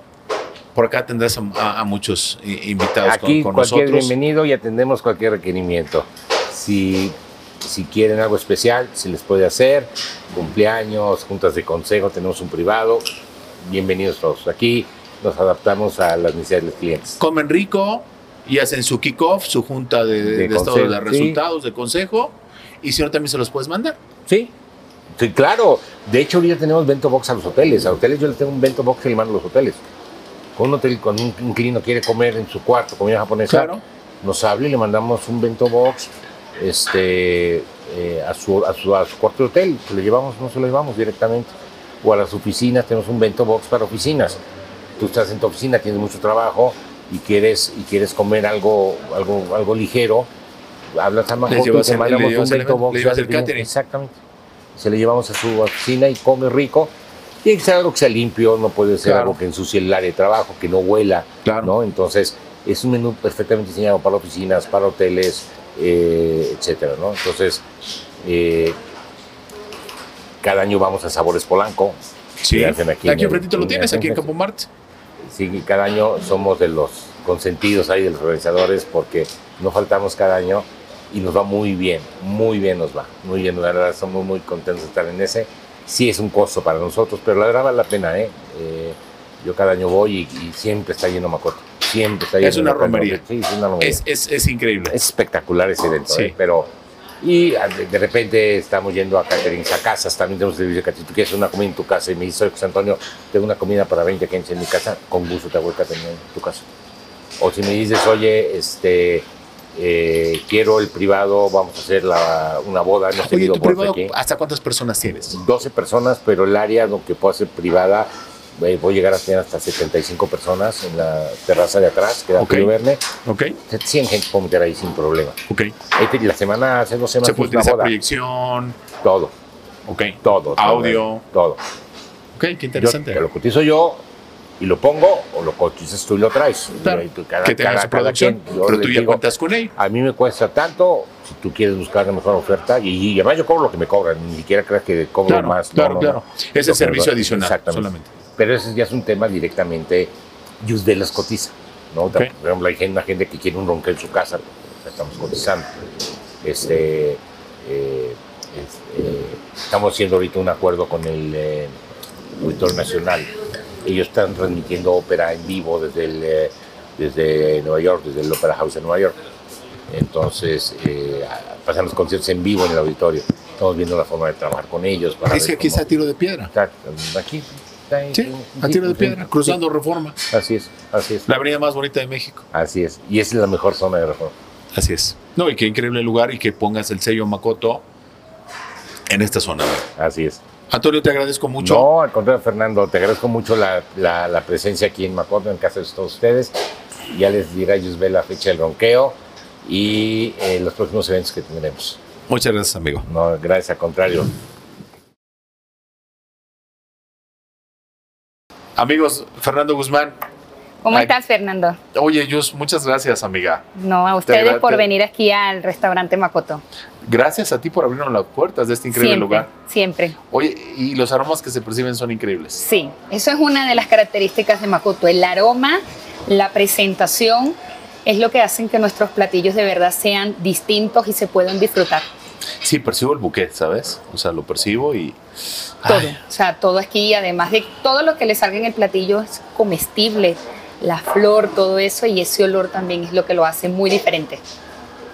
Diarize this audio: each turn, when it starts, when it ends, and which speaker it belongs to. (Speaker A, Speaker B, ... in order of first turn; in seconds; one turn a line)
Speaker A: 0.7-4.2
Speaker B: 3.0-17.2
Speaker A: 17.2-24.0
Speaker B: 20.2-21.4
Speaker B: 24.3-24.5
Speaker B: 25.2-29.8
Speaker B: 30.6-44.4
Speaker A: 33.5-33.8
Speaker B: 45.0-50.3
Speaker B: 50.9-54.2
Speaker A: 51.5-53.7
Speaker B: 54.8-67.6
Speaker A: 59.0-59.4
Speaker A: 61.5-61.7
Speaker B: 68.2-68.8
Speaker B: 70.4-74.3
Speaker A: 72.4-74.7
Speaker B: 75.3-94.0
Speaker A: 92.4-93.2
Speaker A: 93.8-95.0
Speaker B: 94.9-106.6
Speaker A: 96.1-96.4
Speaker B: 107.4-114.1
Speaker A: 113.2-115.4
Speaker B: 115.3-123.0
Speaker A: 122.4-122.7
Speaker A: 123.2-123.6
Speaker B: 123.7-125.4
Speaker A: 125.5-125.8
Speaker B: 125.9-127.9
Speaker A: 127.2-128.8
Speaker B: 129.0-129.3
Speaker A: 129.9-131.2
Speaker B: 130.2-131.6
Speaker A: 132.3-133.2
Speaker B: 132.8-134.0
Speaker B: 134.6-139.2
Speaker A: 136.8-139.7
Speaker B: 139.8-155.7
Speaker A: 145.3-148.1
Speaker B: 156.4-161.8
Speaker B: 162.4-163.3
Speaker B: 163.8-169.2
Speaker B: 169.9-175.8
Speaker A: 175.3-176.5
Speaker B: 176.5-179.6
Speaker A: 178.1-180.2
Speaker B: 180.3-181.3
Speaker A: 181.3-182.4
Speaker B: 182.5-184.3
Speaker A: 184.7-187.8
Speaker A: 189.1-189.9
Speaker B: 190.0-190.4
Speaker A: 190.7-191.9
Speaker B: 191.6-196.5
Speaker B: 197.1-202.0
Speaker A: 202.3-203.1
Speaker B: 203.1-204.3
Speaker A: 208.8-210.2
Speaker C: 210.8-211.8
Speaker A: 211.9-213.7
Speaker C: 213.8-216.6
Speaker A: 214.3-214.9
Speaker A: 217.0-219.5
Speaker C: 218.9-220.2
Speaker A: 220.3-222.6
Speaker C: 222.6-232.1
Speaker A: 232.6-235.2
Speaker A: 235.8-236.2
Speaker C: 235.9-244.4